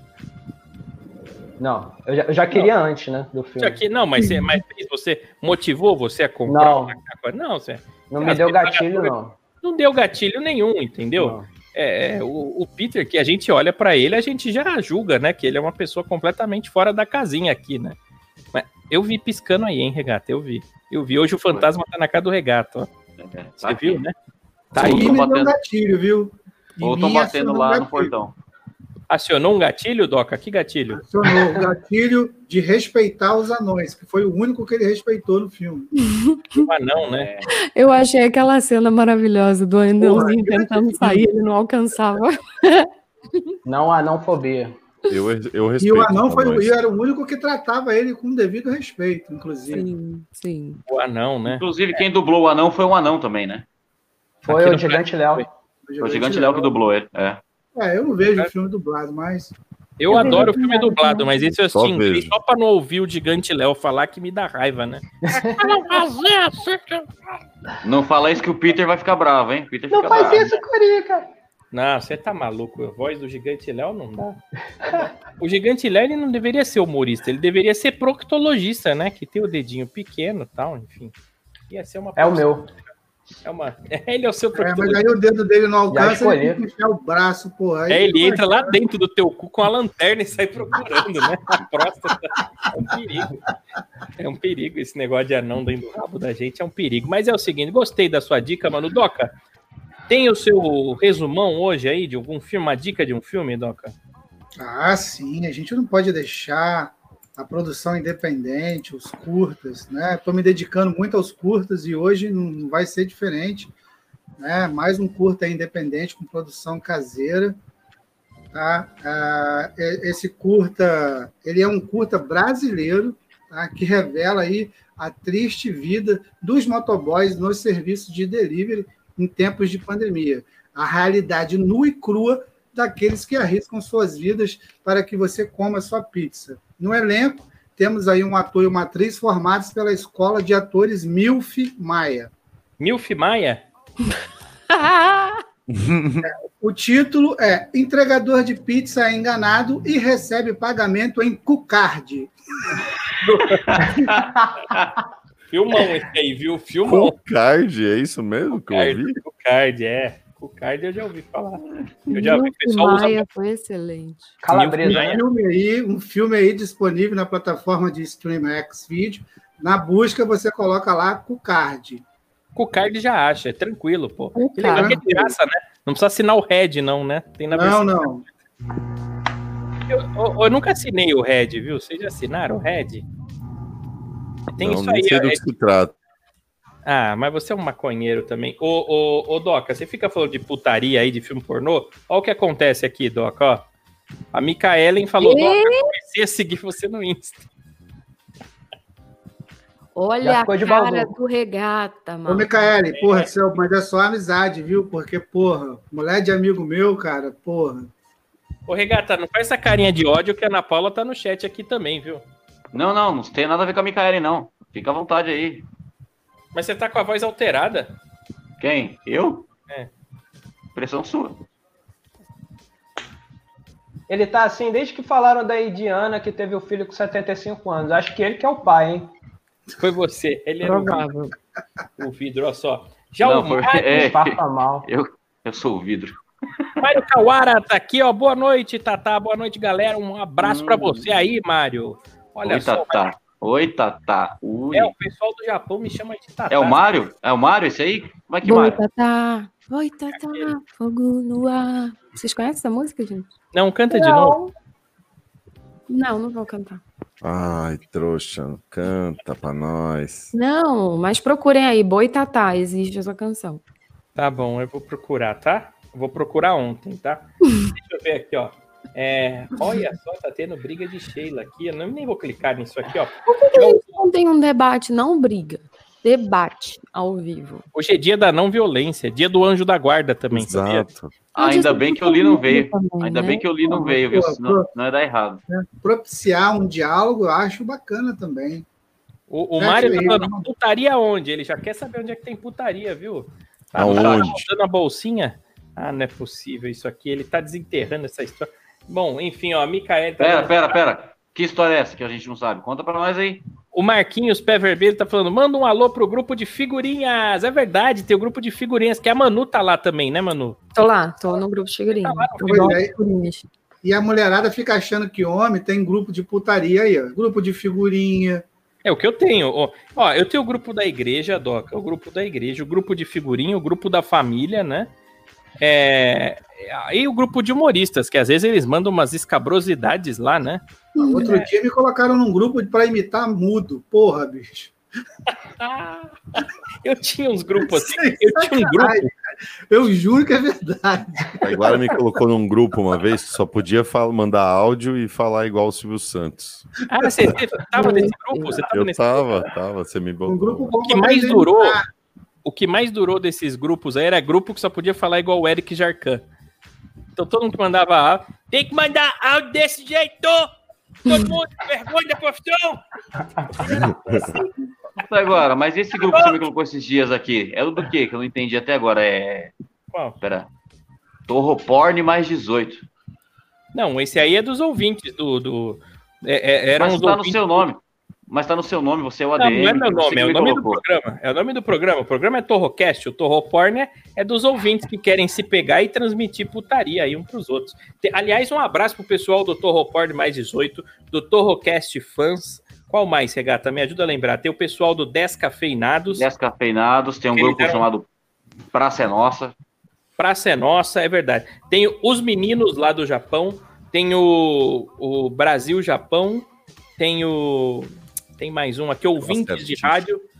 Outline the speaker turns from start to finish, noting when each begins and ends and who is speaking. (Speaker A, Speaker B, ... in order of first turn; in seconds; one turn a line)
Speaker A: 1.6-3.8
Speaker B: 3.6-18.0
Speaker C: 4.2-4.5
Speaker A: 6.5-7.0
Speaker A: 8.1-9.3
Speaker A: 11.2-11.5
Speaker B: 18.5-22.9
Speaker D: 23.2-24.0
Speaker B: 23.6-24.1
Speaker B: 24.7-25.2
Speaker D: 24.8-25.6
Speaker E: 24.8-28.1
Speaker D: 26.8-28.3
Speaker B: 29.1-31.0
Speaker E: 30.9-35.9
Speaker C: 36.0-36.6
Speaker B: 36.6-37.3
Speaker D: 37.1-37.5
Speaker C: 37.7-43.5
Speaker E: 40.0-41.2
Speaker A: 43.6-44.8
Speaker F: 45.1-46.8
Speaker E: 45.8-49.9
Speaker C: 49.7-50.8
Speaker B: 50.9-52.0
Speaker D: 51.5-53.6
Speaker B: 54.4-55.5
Speaker A: 54.4-55.5
Speaker E: 55.9-56.8
Speaker D: 56.0-57.4
Speaker E: 57.7-59.5
Speaker B: 60.0-67.1
Speaker C: 60.1-61.3
Speaker F: 61.7-62.3
Speaker A: 65.2-65.8
Speaker D: 67.8-70.6
Speaker A: 69.9-71.3
Speaker B: 71.7-74.4
Speaker A: 74.8-75.1
Speaker B: 75.4-81.1
Speaker B: 81.7-82.7
Speaker A: 82.2-82.7
Speaker B: 83.4-85.0
Speaker E: 84.5-88.7
Speaker A: 85.9-86.6
Speaker B: 87.9-93.4
Speaker B: 94.2-99.3
Speaker B: 100.1-103.9
Speaker E: 104.6-113.7
Speaker E: 114.4-117.6
Speaker E: 118.5-142.3
Speaker B: 142.8-143.7
Speaker C: 144.7-145.4
Speaker F: 145.7-146.3
Speaker E: 146.2-152.7
Speaker B: 153.2-153.6
Speaker D: 153.7-154.9
Speaker A: 154.1-154.7
Speaker B: 155.5-157.2
Speaker F: 156.8-159.2
Speaker B: 158.5-163.3
Speaker C: 162.1-164.4
Speaker A: 164.4-165.2
Speaker B: 164.5-165.2
Speaker E: 164.9-172.0
Speaker B: 172.6-178.1
Speaker C: 174.3-175.1
Speaker E: 174.6-175.3
Speaker E: 177.5-178.2
Speaker B: 179.9-183.1
Speaker B: 184.6-185.4
Speaker F: 184.6-185.9
Speaker B: 186.8-193.7
Speaker B: 194.3-197.4
Speaker C: 195.2-195.9
Speaker C: 199.9-202.5
Speaker A: 200.2-201.1
Speaker E: 202.3-207.9
Speaker B: 202.9-203.3
Speaker B: 208.7-212.2
Speaker D: 212.7-215.7
Speaker B: 216.5-217.9
Speaker D: 218.6-219.5
Speaker D: 220.7-221.4
Speaker A: 224.1-229.1
Speaker B: 229.8-231.1
Speaker C: 230.6-231.3
Speaker B: 232.0-234.1
Speaker D: 233.2-236.2
Speaker A: 233.9-234.9
Speaker B: 236.8-243.1
Speaker D: 240.4-241.1
Speaker D: 242.4-244.9
Speaker B: 244.7-246.8
Speaker D: 246.5-248.8
Speaker C: 248.4-253.3
Speaker B: 250.1-250.5
Speaker B: 253.5-254.4
Speaker C: 253.9-254.5
Speaker C: 255.9-256.8
Speaker F: 257.2-260.3
Speaker C: 260.3-263.6
Speaker B: 264.1-273.9
Speaker C: 273.3-277.6
Speaker B: 277.7-280.9
Speaker F: 280.3-281.1
Speaker C: 281.4-283.5
Speaker D: 281.4-285.4
Speaker E: 283.7-284.6
Speaker E: 285.5-288.6
Speaker B: 289.3-300.8
Speaker E: 289.6-290.5
Speaker F: 293.7-294.4
Speaker D: 293.8-294.3
Speaker D: 300.2-303.4
Speaker B: 303.7-310.6
Speaker C: 310.7-313.5
Speaker B: 311.3-312.8
Speaker E: 312.4-312.9
Speaker E: 313.8-318.4
Speaker B: 318.8-324.9
Speaker B: 325.6-330.6
Speaker C: 331.0-331.4
Speaker E: 331.0-334.7
Speaker B: 331.2-331.5
Speaker B: 335.6-339.1
Speaker E: 337.6-339.1
Speaker E: 339.7-341.6
Speaker F: 341.4-346.7
Speaker B: 346.9-349.4
Speaker C: 347.7-348.6
Speaker F: 348.7-350.7
Speaker E: 350.3-351.9
Speaker B: 350.8-351.8
Speaker B: 352.4-356.3
Speaker B: 357.1-360.5
Speaker B: 361.1-362.8
Speaker B: 363.5-364.5
Speaker F: 363.7-364.3
Speaker D: 365.0-369.5
Speaker B: 365.9-366.3
Speaker D: 370.2-370.5
Speaker D: 371.3-372.8
Speaker B: 373.7-377.7
Speaker D: 376.8-380.8
Speaker B: 379.4-396.3
Speaker D: 396.1-398.1
Speaker B: 397.3-397.9
Speaker D: 398.7-399.5
Speaker B: 400.2-406.5
Speaker B: 407.0-410.2
Speaker F: 409.2-410.1